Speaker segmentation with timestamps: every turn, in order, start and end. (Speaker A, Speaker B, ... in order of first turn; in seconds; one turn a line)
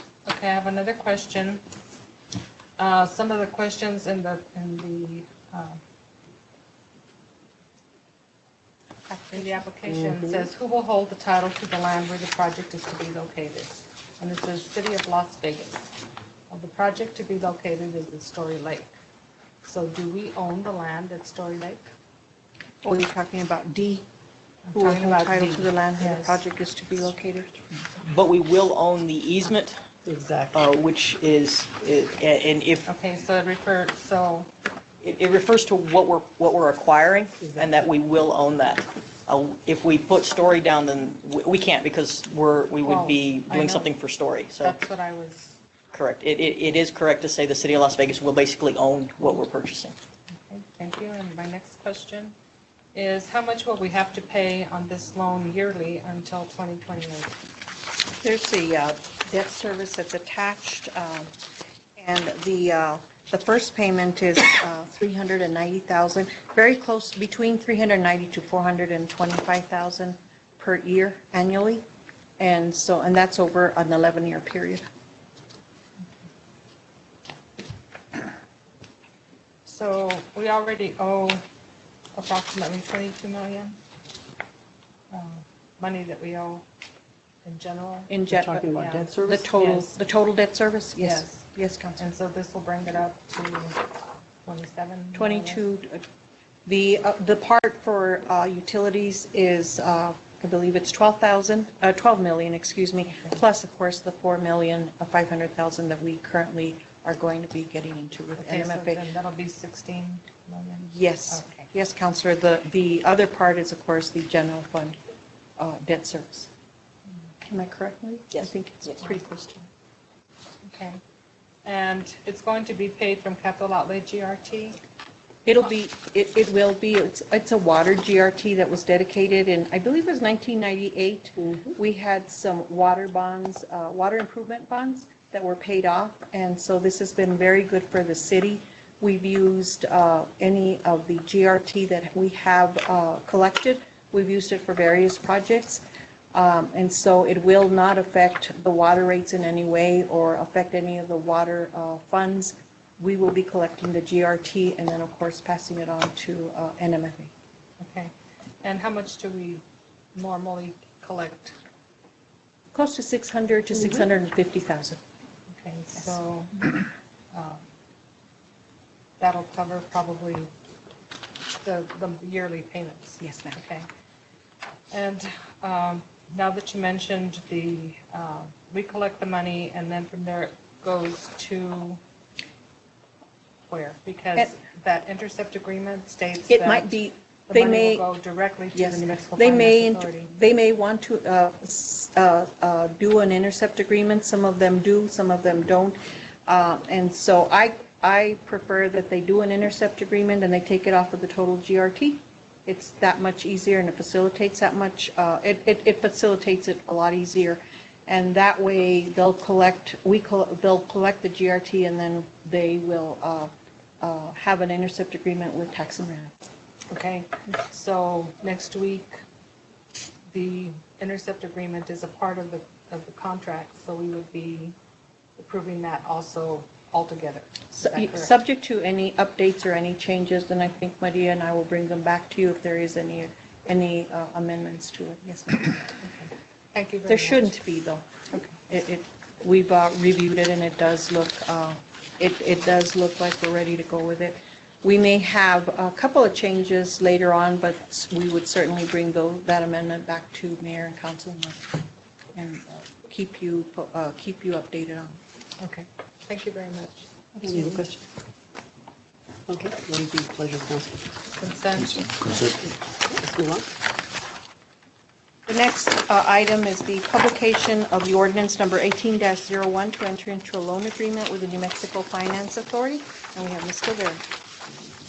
Speaker A: 0.3-1.6
Speaker A: 2.8-5.8
Speaker B: 9.1-9.7
Speaker A: 9.3-15.9
Speaker C: 9.9-10.5
Speaker A: 16.5-18.9
Speaker A: 19.6-21.8
Speaker B: 22.8-24.1
Speaker A: 24.7-26.4
Speaker B: 24.7-27.6
Speaker D: 28.0-29.8
Speaker C: 30.1-30.6
Speaker D: 30.5-32.9
Speaker A: 32.9-34.5
Speaker D: 35.0-44.8
Speaker A: 42.8-43.9
Speaker A: 44.6-45.6
Speaker D: 45.9-50.0
Speaker A: 50.3-52.4
Speaker A: 52.9-57.4
Speaker B: 58.2-61.3
Speaker B: 62.0-71.8
Speaker B: 72.4-74.8
Speaker A: 79.7-81.4
Speaker A: 82.2-83.8
Speaker A: 85.1-86.7
Speaker A: 87.4-88.1
Speaker B: 88.1-88.7
Speaker C: 88.3-89.5
Speaker A: 88.7-90.0
Speaker B: 89.2-92.0
Speaker A: 91.0-91.5
Speaker A: 92.0-93.8
Speaker A: 94.4-95.6
Speaker B: 95.1-96.0
Speaker B: 96.7-109.1
Speaker A: 108.4-111.7
Speaker B: 110.8-115.0
Speaker B: 115.6-116.5
Speaker B: 117.5-119.7
Speaker A: 120.7-121.0
Speaker A: 121.7-124.8
Speaker B: 125.5-157.3
Speaker A: 157.8-158.1
Speaker A: 158.6-159.6
Speaker A: 160.2-161.6
Speaker B: 162.7-165.0
Speaker A: 165.6-167.7
Speaker A: 169.2-170.5
Speaker A: 171.6-173.9
Speaker B: 173.2-173.6
Speaker A: 174.9-182.0
Speaker A: 183.7-186.9
Speaker B: 186.5-188.1
Speaker A: 187.5-190.3
Speaker B: 188.7-216.3
Speaker A: 216.9-219.2
Speaker A: 220.3-224.8
Speaker A: 225.4-228.3
Speaker B: 227.7-236.0
Speaker A: 236.0-237.5
Speaker B: 237.1-251.6
Speaker B: 252.3-255.2
Speaker A: 255.6-257.8
Speaker C: 257.4-258.0
Speaker C: 259.5-261.0
Speaker A: 261.3-262.2
Speaker C: 262.9-263.7
Speaker B: 265.5-274.2